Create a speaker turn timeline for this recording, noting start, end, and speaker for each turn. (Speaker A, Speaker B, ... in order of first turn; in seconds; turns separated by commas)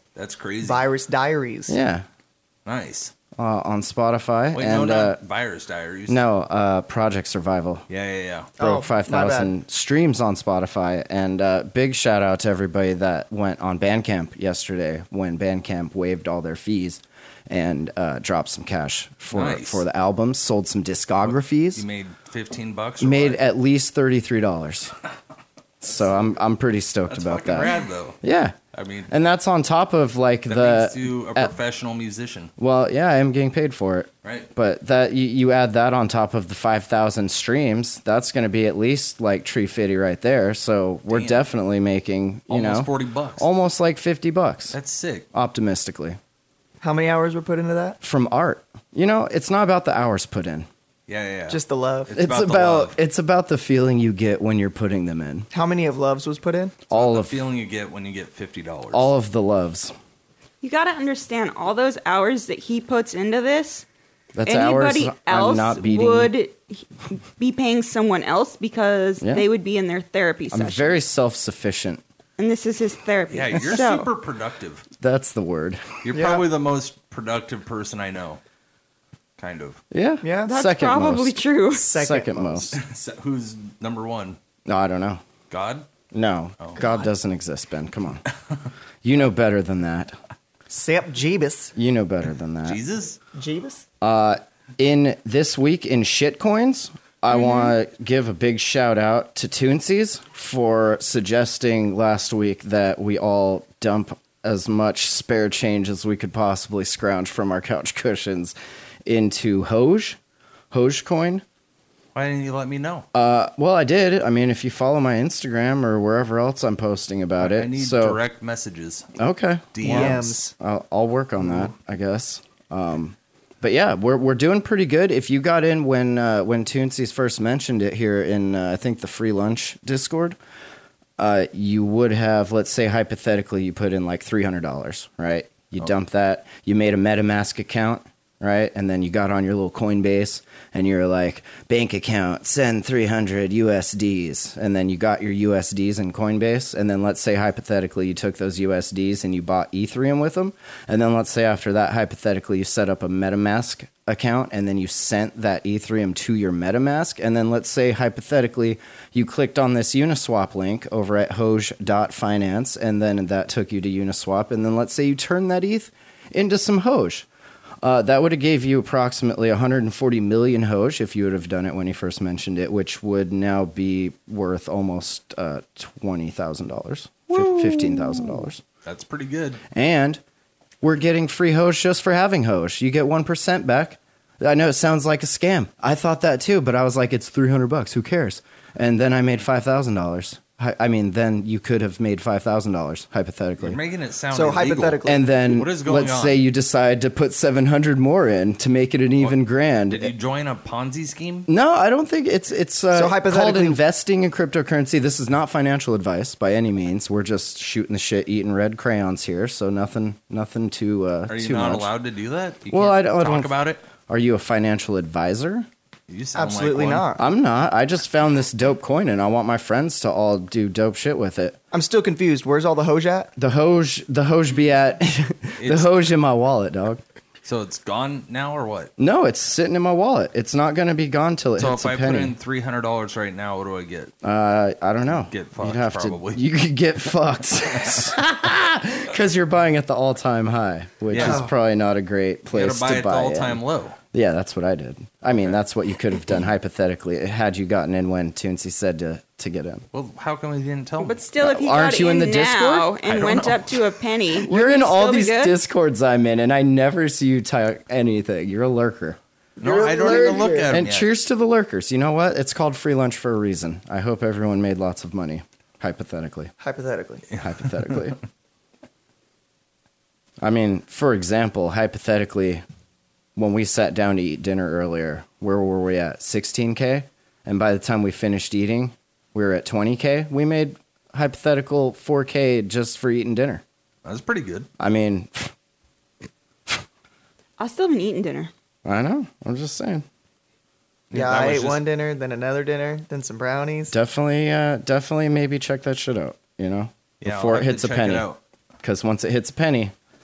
Speaker A: 0.1-0.9, Speaker B: 0.6-1.8, Speaker C: 1.7-2.0, Speaker A: 2.6-3.1, Speaker C: 3.4-5.2, Speaker A: 4.5-6.2, Speaker C: 6.1-7.8, Speaker A: 7.9-8.5, Speaker B: 8.6-9.5, Speaker C: 8.6-21.8, Speaker A: 19.3-19.8, Speaker A: 21.2-23.4, Speaker C: 23.0-24.9, Speaker C: 25.8-28.5, Speaker A: 27.1-28.2, Speaker A: 28.7-29.1, Speaker C: 29.1-31.5, Speaker A: 30.5-32.5, Speaker C: 32.6-44.8, Speaker A: 41.1-41.4, Speaker A: 42.5-43.5, Speaker A: 44.7-45.3, Speaker C: 45.3-46.2, Speaker B: 46.8-48.0, Speaker C: 48.0-50.7, Speaker A: 51.1-53.0, Speaker B: 51.5-52.1, Speaker C: 52.1-55.5, Speaker B: 55.5-56.8, Speaker C: 56.9-57.4, Speaker A: 56.9-59.1, Speaker C: 58.9-59.9, Speaker D: 60.6-63.9, Speaker C: 64.3-66.3, Speaker D: 64.5-71.0, Speaker C: 69.2-69.5, Speaker C: 70.5-72.0, Speaker D: 72.4-74.1, Speaker A: 73.3-74.8, Speaker C: 75.0-75.8, Speaker A: 76.0-78.4, Speaker B: 76.1-76.4, Speaker A: 79.4-79.8, Speaker C: 79.9-82.8, Speaker B: 80.2-80.6, Speaker D: 80.5-81.9, Speaker B: 81.8-82.8, Speaker A: 82.8-84.4, Speaker C: 84.7-85.2, Speaker A: 85.5-85.8, Speaker C: 86.1-88.2, Speaker A: 86.6-86.9, Speaker C: 89.0-90.2, Speaker B: 90.7-91.7, Speaker C: 91.8-92.8, Speaker A: 92.6-93.2, Speaker B: 93.3-93.8, Speaker C: 94.0-110.2, Speaker D: 97.3-97.6, Speaker C: 110.7-111.4, Speaker A: 112.1-113.1, Speaker C: 113.1-118.2, Speaker A: 117.4-119.1, Speaker C: 119.2-130.4, Speaker A: 119.7-120.3, Speaker B: 119.8-120.5, Speaker A: 121.4-121.7, Speaker C: 131.2-167.2, Speaker C: 167.8-178.6, Speaker A: 178.8-179.6, Speaker C: 179.7-180.2, Speaker C: 180.8-193.8, Speaker A: 193.6-196.4, Speaker B: 194.3-195.2, Speaker C: 195.1-200.1, Speaker A: 199.2-201.5, Speaker C: 201.5-211.9, Speaker B: 202.9-203.8, Speaker A: 211.3-213.8, Speaker C: 212.7-213.6, Speaker C: 214.1-215.7, Speaker A: 216.1-217.1, Speaker B: 216.3-217.2, Speaker C: 217.2-221.6, Speaker B: 221.7-223.3, Speaker C: 223.4-227.0, Speaker A: 225.6-225.9, Speaker A: 227.4-228.9, Speaker C: 229.0-232.3, Speaker A: 231.6-234.1, Speaker C: 234.2-243.6, Speaker A: 235.1-236.4, Speaker A: 237.7-238.2, Speaker A: 241.1-241.5, Speaker B: 241.1-241.5, Speaker A: 242.5-244.0, Speaker C: 244.1-249.8, Speaker A: 249.9-251.2, Speaker D: 251.0-255.6, Speaker C: 251.4-252.9, Speaker A: 253.0-253.9, Speaker C: 254.4-259.2, Speaker B: 259.6-260.8, Speaker A: 259.6-261.1, Speaker C: 260.7-266.5, Speaker B: 266.6-267.2, Speaker A: 267.3-268.0, Speaker C: 267.4-268.2, Speaker C: 270.4-272.6, Speaker C: 273.4-283.6, Speaker A: 284.0-284.7, Speaker C: 284.8-285.5, Speaker D: 287.6-288.5, Speaker C: 288.8-290.0, Speaker A: 291.1-291.9, Speaker B: 291.1-293.9, Speaker C: 293.9-298.3, Speaker A: 297.2-298.4, Speaker C: 298.8-299.9